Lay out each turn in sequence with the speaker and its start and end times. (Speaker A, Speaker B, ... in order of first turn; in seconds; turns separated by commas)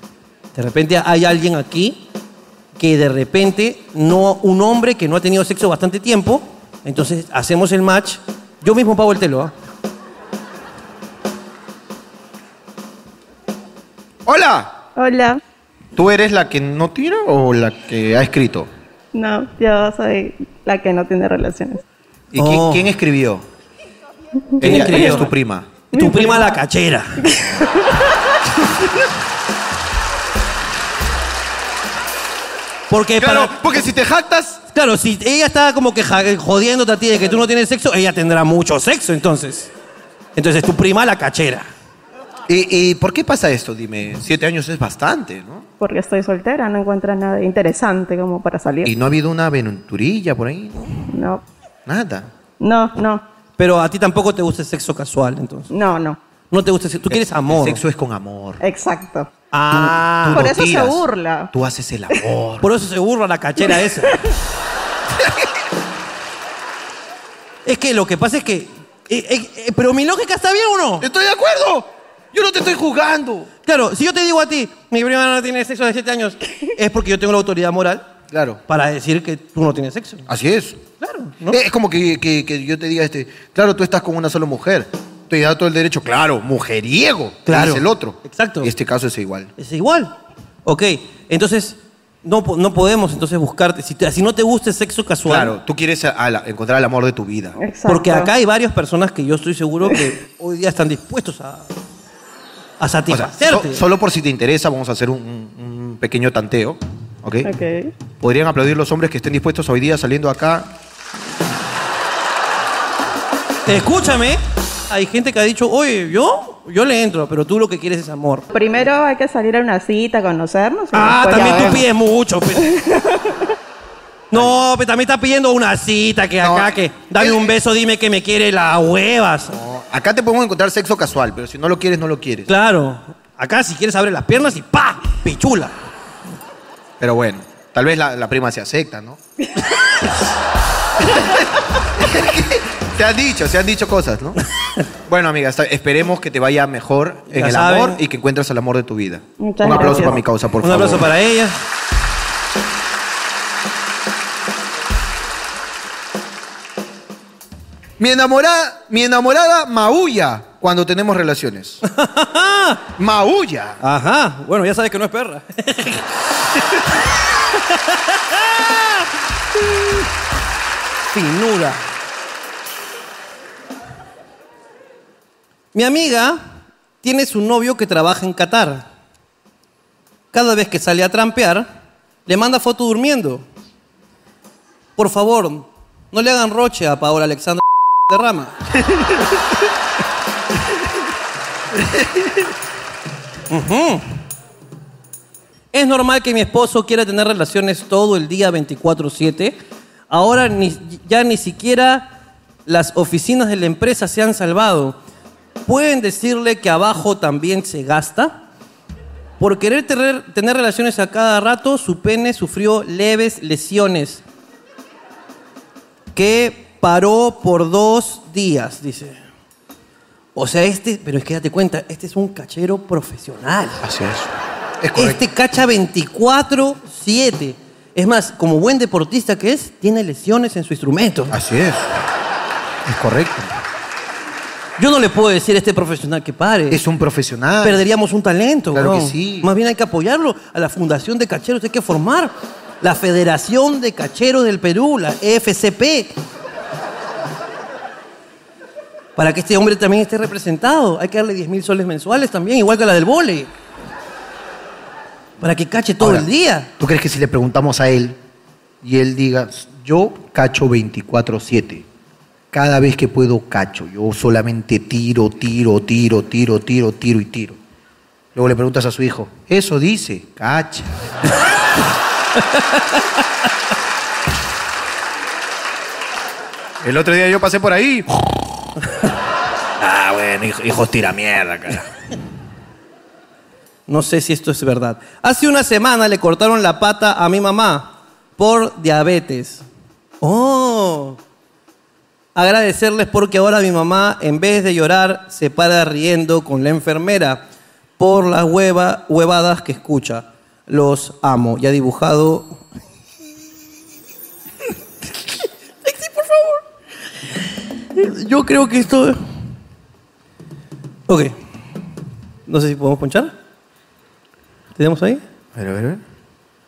Speaker A: 0.5-2.0, Speaker A: 2.8-9.5, Speaker B: 14.2-14.8, Speaker C: 14.9-15.4, Speaker B: 15.9-18.7, Speaker C: 19.1-21.8, Speaker B: 22.3-23.4, Speaker A: 22.3-22.9, Speaker C: 24.6-25.2, Speaker A: 24.6-25.3, Speaker B: 24.6-25.7, Speaker C: 25.9-26.5, Speaker A: 25.9-27.2, Speaker C: 27.2-28.2, Speaker A: 32.9-33.6, Speaker B: 33.2-34.6, Speaker A: 34.7-39.7, Speaker A: 40.4-41.7, Speaker B: 42.5-45.7, Speaker C: 45.8-48.9, Speaker B: 48.8-51.0, Speaker C: 51.1-51.4, Speaker B: 51.9-52.3, Speaker C: 52.6-53.2, Speaker A: 53.6-55.7, Speaker C: 55.7-56.2, Speaker A: 56.5-57.8, Speaker B: 57.1-58.6, Speaker C: 58.6-59.3, Speaker A: 59.5-60.6, Speaker B: 59.7-62.6, Speaker C: 60.3-61.5, Speaker A: 62.6-64.2, Speaker B: 65.1-65.5, Speaker A: 67.7-71.1, Speaker B: 71.0-73.5, Speaker A: 73.7-78.0, Speaker B: 78.3-78.6, Speaker A: 78.7-80.3, Speaker B: 80.3-80.8, Speaker A: 81.0-81.6, Speaker B: 81.5-89.5, Speaker A: 87.5-88.7, Speaker A: 89.6-90.1, Speaker A: 90.6-95.6, Speaker B: 95.2-97.6, Speaker C: 97.6-98.3, Speaker A: 97.9-101.7, Speaker A: 102.8-103.8, Speaker B: 103.1-107.5, Speaker C: 107.4-107.9, Speaker B: 108.2-110.8, Speaker A: 113.7-118.5, Speaker C: 118.5-121.8, Speaker A: 120.9-122.8, Speaker C: 122.6-123.4, Speaker A: 124.3-129.6, Speaker B: 126.4-127.5, Speaker B: 129.5-132.5, Speaker A: 132.5-135.7, Speaker B: 137.0-139.2, Speaker B: 141.0-144.4, Speaker B: 145.1-151.1, Speaker A: 147.3-148.0, Speaker C: 149.4-150.2, Speaker A: 150.6-151.6, Speaker B: 158.0-161.8, Speaker A: 161.8-162.8, Speaker B: 163.0-163.8, Speaker A: 163.8-166.1, Speaker A: 167.6-169.1, Speaker A: 171.1-171.8, Speaker A: 175.7-176.4, Speaker A: 177.0-178.9, Speaker A: 180.3-181.7, Speaker A: 182.2-183.4, Speaker A: 185.0-188.5, Speaker B: 188.9-189.2, Speaker B: 191.8-192.4, Speaker A: 193.5-194.1, Speaker A: 195.7-199.6, Speaker A: 200.1-202.1, Speaker A: 202.7-204.9, Speaker A: 205.7-208.4, Speaker A: 209.4-214.2, Speaker A: 216.1-219.2, Speaker A: 220.3-223.8, Speaker B: 223.8-225.2, Speaker A: 224.9-231.3, Speaker B: 231.3-231.9, Speaker B: 232.8-233.5, Speaker A: 234.8-236.8, Speaker B: 236.7-237.8, Speaker A: 237.6-246.1, Speaker B: 238.7-239.5, Speaker A: 249.2-253.5, Speaker A: 255.4-256.7, Speaker B: 256.0-258.2, Speaker B: 258.8-261.9, Speaker B: 262.5-267.6, Speaker B: 268.3-271.0, Speaker A: 272.4-273.0, Speaker B: 276.8-278.2, Speaker B: 279.8-281.9, Speaker A: 283.9-289.6, Speaker A: 290.2-291.2, Speaker A: 292.3-297.4, Speaker A: 298.0-302.6, Speaker A: 305.8-306.6, Speaker A: 307.9-309.2, Speaker A: 311.1-311.3, Speaker A: 312.5-313.3, Speaker A: 314.8-315.2, Speaker B: 315.5-316.0